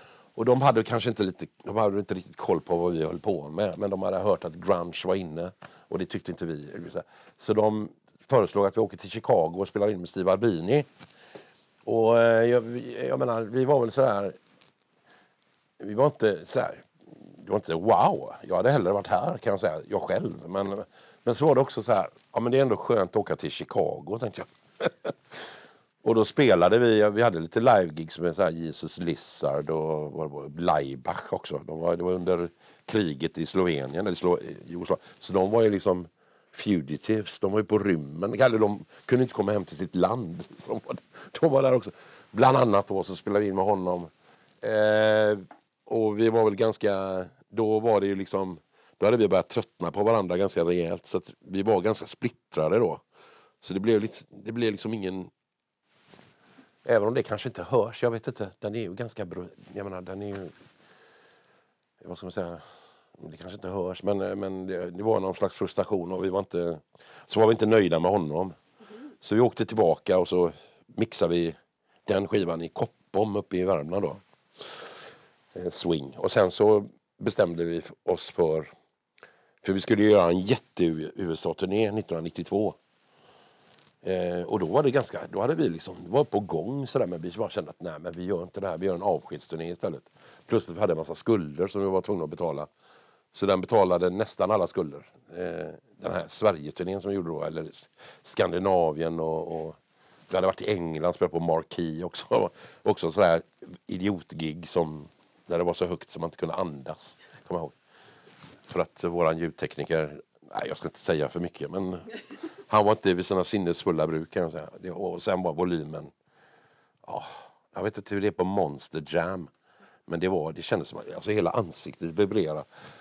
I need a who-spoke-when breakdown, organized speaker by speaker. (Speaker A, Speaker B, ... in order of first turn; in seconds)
Speaker A: 0.4-10.9, 11.8-14.4, 15.8-25.2, 26.0-44.1, 44.6-53.0, 53.6-55.3, 56.9-60.5, 62.0-68.6, 69.2-74.2, 75.5-78.7, 79.6-82.8, 84.0-92.7, 93.3-99.8, 100.3-107.8, 108.7-112.1, 112.7-116.1, 117.0-119.5, 120.1-122.7